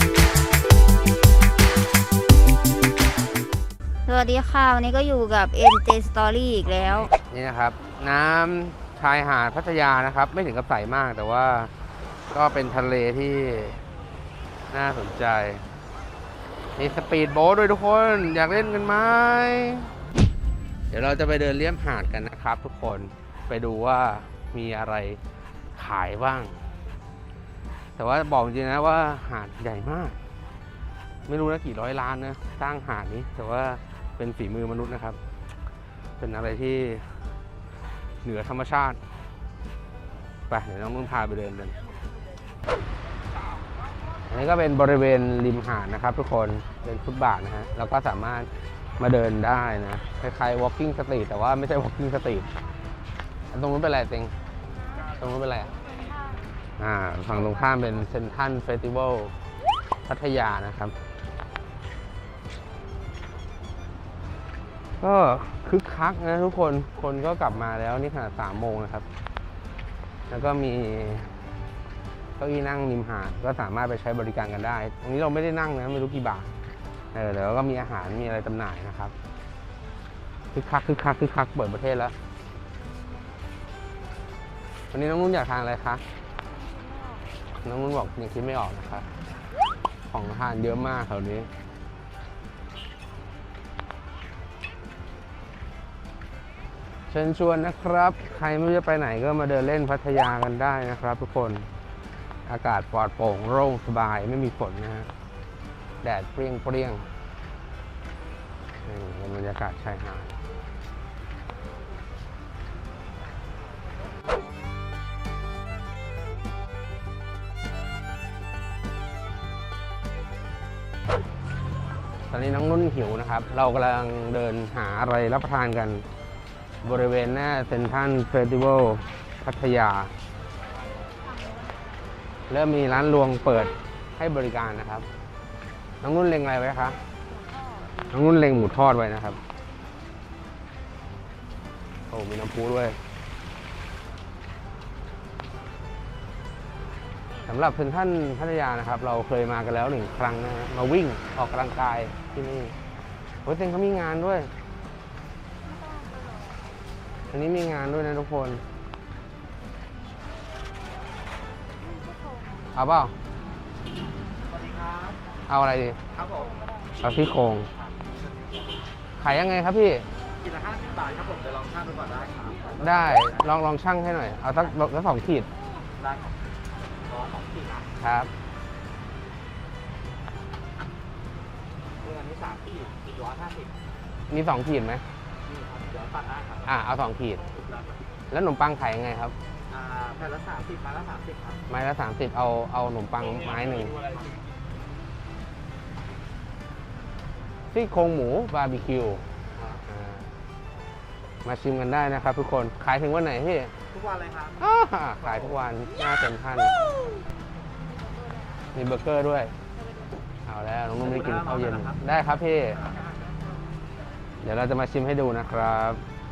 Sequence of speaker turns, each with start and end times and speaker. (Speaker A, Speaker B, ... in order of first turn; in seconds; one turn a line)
Speaker A: 4.1-7.1
Speaker B: 7.1-11.7
Speaker B: 12.3-13.8
Speaker B: 14.7-15.6
Speaker B: 16.8-19.9
Speaker B: 20.9-25.2
Speaker B: 25.7-26.6
Speaker B: 27.9-30.1
Speaker B: 31.2-35.2
Speaker B: 36.2-37.2
Speaker B: 38.2-39.0
Speaker B: 40.5-41.8
Speaker B: 44.3-52.5
Speaker B: 53.5-54.3
Speaker B: 55.1-55.7
Speaker B: 56.8-59.3
Speaker B: 60.1-60.9
Speaker B: 65.0-69.0
Speaker B: 70.3-71.3
Speaker B: 72.4-76.5
Speaker B: 77.1-79.1
Speaker B: 80.5-82.1
Speaker B: 84.9-86.0
Speaker B: 87.6-89.1
Speaker B: 90.1-91.5
Speaker B: 97.1-101.7
Speaker B: 102.5-105.1
Speaker B: 106.0-107.1
Speaker B: 108.8-110.3
Speaker B: 122.3-126.0
Speaker B: 126.8-130.1
Speaker B: 132.5-135.1
Speaker B: 136.0-137.0
Speaker B: 138.1-139.4
Speaker B: 142.1-143.0
Speaker B: 147.4-152.7
Speaker B: 153.4-154.5
Speaker B: 157.3-158.6
Speaker B: 162.7-163.1
Speaker C: 164.5-165.2
Speaker B: 165.5-166.0
Speaker C: 166.1-166.5
Speaker B: 167.0-167.7
Speaker C: 167.8-168.5
Speaker B: 169.2-170.1
Speaker C: 170.4-172.8
Speaker B: 172.8-175.5
Speaker C: 176.0-176.4
Speaker C: 177.0-177.9
Speaker B: 178.0-178.3
Speaker C: 182.0-183.7
Speaker B: 184.3-185.0
Speaker C: 185.4-186.6
Speaker B: 186.6-187.4
Speaker C: 187.6-187.9
Speaker B: 188.3-189.3
Speaker C: 189.7-191.6
Speaker B: 191.7-194.0
Speaker B: 197.7-199.3
Speaker B: 199.8-200.3
Speaker B: 201.4-203.7
Speaker C: 203.9-204.5
Speaker B: 204.6-206.8
Speaker B: 208.7-209.5
Speaker B: 210.5-212.8
Speaker C: 211.0-212.0
Speaker B: 214.4-216.0